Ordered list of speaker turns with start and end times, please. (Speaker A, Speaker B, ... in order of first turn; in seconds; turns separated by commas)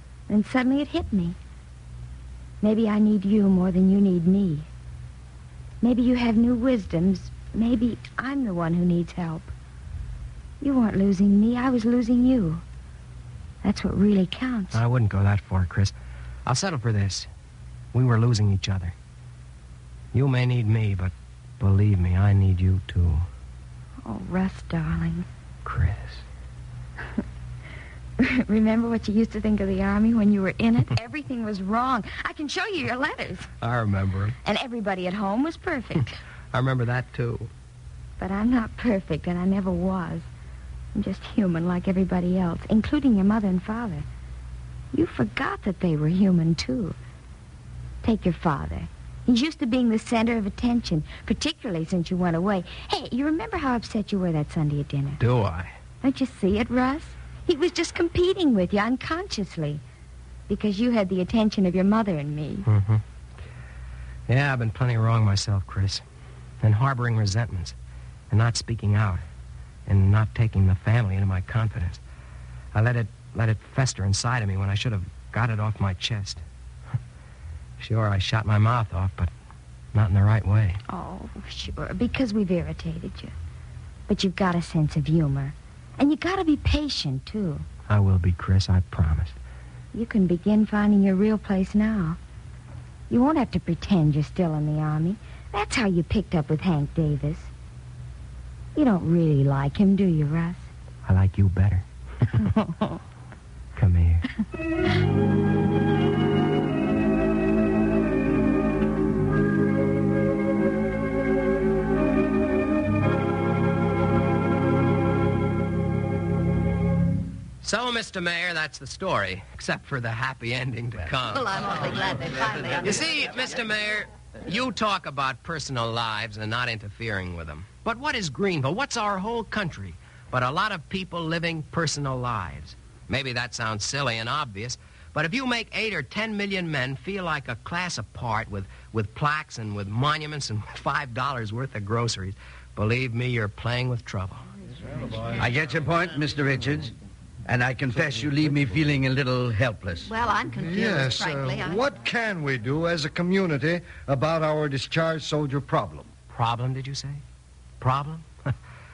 Speaker A: 0.3-1.4, Speaker A: 2.6-4.7, Speaker A: 5.8-9.5, Speaker A: 10.6-12.6, Speaker A: 13.6-14.8, Speaker B: 14.7-15.9, Speaker B: 16.4-17.3, Speaker B: 17.9-18.9, Speaker B: 20.1-23.2, Speaker A: 24.0-25.3, Speaker B: 25.6-26.2, Speaker A: 28.2-33.5, Speaker B: 33.6-34.4, Speaker A: 34.4-36.2, Speaker B: 36.5-37.5, Speaker A: 38.2-40.3, Speaker A: 40.9-44.0, Speaker A: 44.9-47.0, Speaker A: 48.0-55.2, Speaker B: 55.2-55.7, Speaker A: 56.0-59.8, Speaker A: 60.5-62.7, Speaker B: 62.6-63.0, Speaker B: 64.3-66.0, Speaker B: 66.6-67.8, Speaker B: 68.3-69.2, Speaker B: 69.9-72.0, Speaker B: 72.7-76.4, Speaker B: 77.8-79.3, Speaker B: 79.9-80.8, Speaker A: 80.9-83.3, Speaker A: 84.1-87.7, Speaker B: 87.9-89.3, Speaker A: 89.9-92.2, Speaker A: 93.1-97.5, Speaker A: 98.7-100.7, Speaker B: 101.0-102.4, Speaker A: 102.5-102.9, Speaker B: 103.7-104.2, Speaker B: 117.6-121.5, Speaker C: 121.3-123.0, Speaker B: 122.8-144.4, Speaker D: 145.4-146.9, Speaker D: 147.5-150.1, Speaker C: 150.0-151.8, Speaker E: 150.6-156.1, Speaker B: 156.3-157.2, Speaker B: 157.8-158.5